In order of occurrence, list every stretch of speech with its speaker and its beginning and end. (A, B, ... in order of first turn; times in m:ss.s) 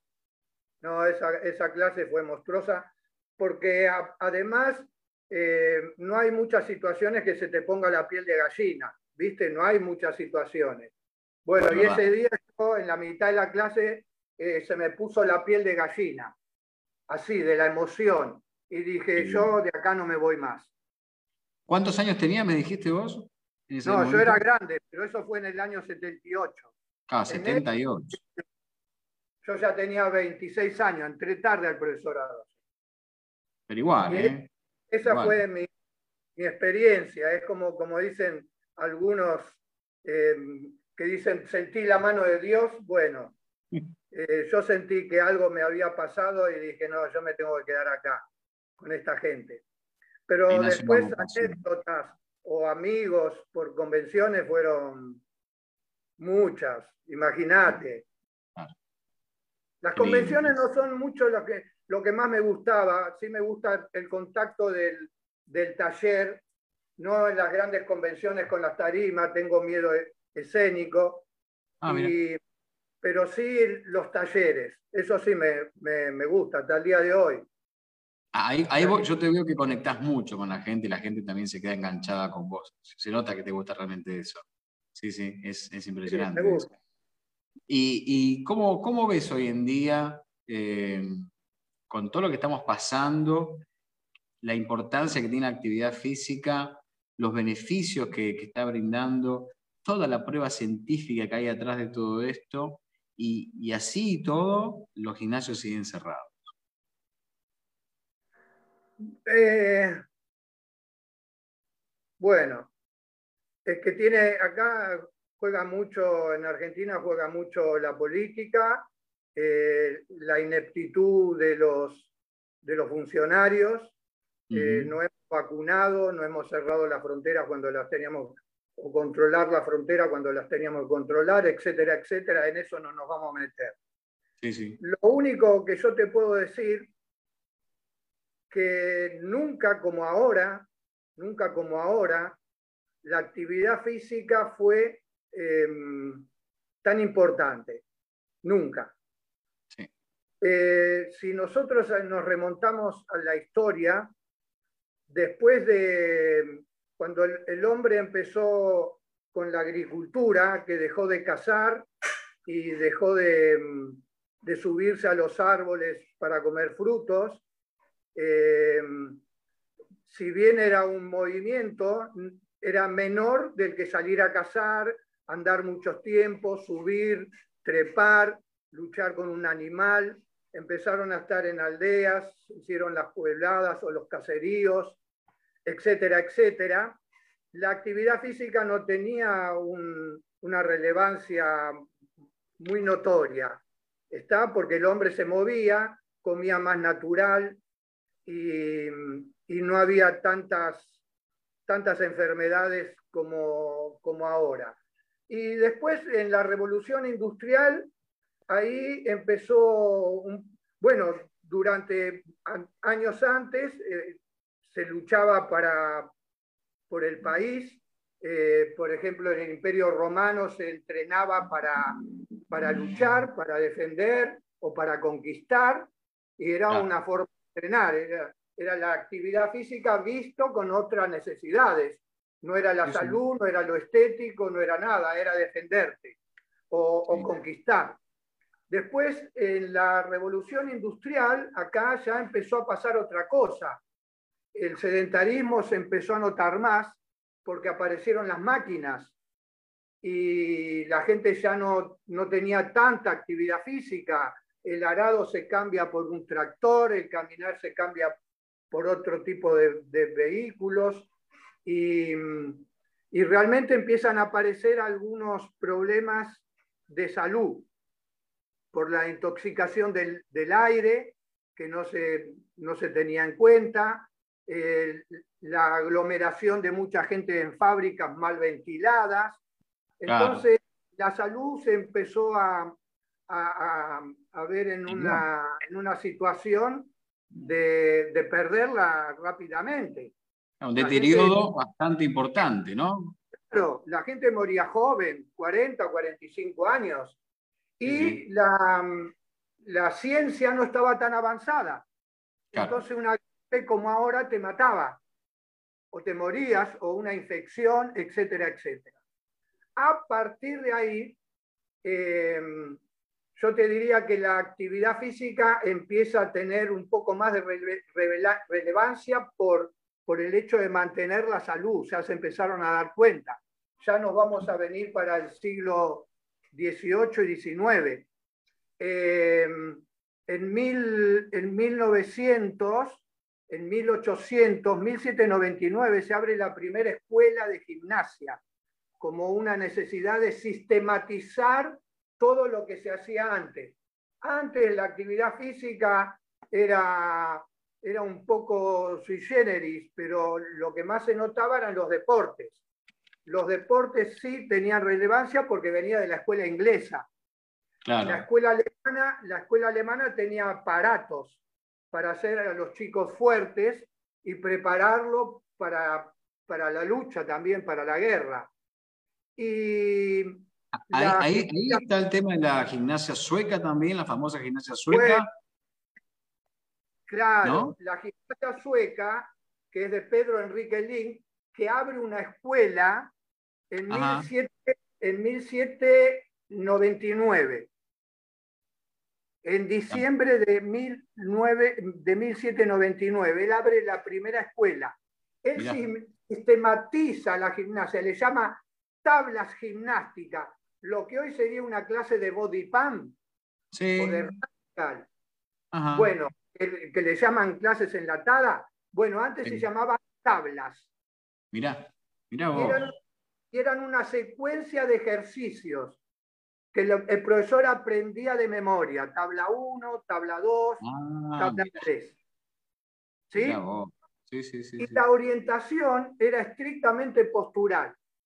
0:00.8-0:10.9 A
0:11.5-0:16.4 A
0:11.6-0:12.0 B
0:17.1-0:20.7 A
0:19.2-0:19.5 B
0:21.7-0:24.4 B
0:23.8-0:26.7 A
0:27.1-0:28.2 B
0:27.3-0:27.6 A
0:29.4-0:32.5 A
0:33.7-0:34.5 B
0:34.1-0:34.3 A
0:34.9-0:35.7 A
0:35.0-0:35.4 B
0:36.4-0:43.4 A
0:44.1-0:48.3 A
0:48.8-0:49.6 A
0:50.3-0:55.2 A
0:50.5-0:51.6 B
0:56.2-0:58.1 A
0:59.8-1:06.4 A
1:00.0-1:00.6 B
1:07.0-1:11.3 A
1:11.8-1:12.2 B
1:11.9-1:12.4 A
1:13.0-1:17.5 A
1:18.3-1:24.4 B
1:25.0-1:26.7 B
1:26.1-1:26.7 A
1:27.7-1:31.3 B
1:31.9-1:33.6 B
1:34.4-1:46.5 B
1:49.0-1:50.0 A
1:52.2-1:52.7 A
1:53.6-2:02.1 A
2:02.6-2:04.0 A
2:04.5-2:05.0 B
2:04.5-2:13.8 A
2:14.4-2:14.8 B
2:14.8-2:16.9 A
2:18.5-2:22.4 A
2:23.0-2:26.3 A
2:26.8-2:27.8 A
2:28.4-2:28.9 A
2:30.4-2:34.1 A
2:35.1-2:41.9 A
2:42.4-2:47.4 A
2:48.2-2:49.2 A
2:50.1-3:05.0 A
3:05.6-3:07.0 A
3:07.5-3:11.8 A
3:12.6-3:17.6 A
3:18.3-3:21.0 A
3:21.7-3:24.8 A
3:25.3-3:27.9 A
3:28.5-3:36.1 A
3:36.9-3:42.0 A
3:42.5-3:56.2 A
3:52.9-3:53.2 B
3:56.7-3:58.0 A
3:58.7-4:03.8 A
4:04.5-4:09.2 A
4:10.0-4:18.2 A
4:18.7-4:21.1 A
4:21.6-4:27.7 A
4:28.7-4:39.4 A
4:40.0-4:42.8 A
4:40.1-4:40.5 B
4:43.3-4:50.1 A
4:44.9-4:45.2 B
4:50.6-4:53.2 B
4:50.8-4:51.4 A
4:53.5-4:57.2 A
4:57.8-5:01.9 A
4:57.8-4:58.2 B
5:02.5-5:02.8 B
5:02.5-5:05.0 A
5:05.9-5:08.9 A
5:09.8-5:11.2 A
5:11.8-5:12.8 A
5:13.4-5:28.1 A
5:28.8-5:38.4 A
5:39.0-5:52.6 A
5:53.3-5:57.1 A
5:57.8-5:58.3 B
5:58.0-6:01.4 A
6:01.9-6:08.5 A
6:09.4-6:11.8 A
6:10.7-6:15.3 B
6:14.9-6:15.3 A
6:17.1-6:23.1 A
6:17.4-6:17.8 B
6:23.7-6:27.7 A
6:23.9-6:24.3 B
6:29.4-6:43.2 A
6:43.7-6:44.3 B
6:44.0-6:45.1 A
6:45.7-6:46.1 B
6:46.0-6:50.9 A
6:51.5-6:53.0 B
6:52.6-6:53.0 A
6:53.5-6:56.0 A
6:56.7-7:00.8 A
7:00.8-7:01.9 B
7:01.4-7:02.2 A
7:03.3-7:03.6 A
7:03.4-7:05.0 B
7:04.8-7:08.0 A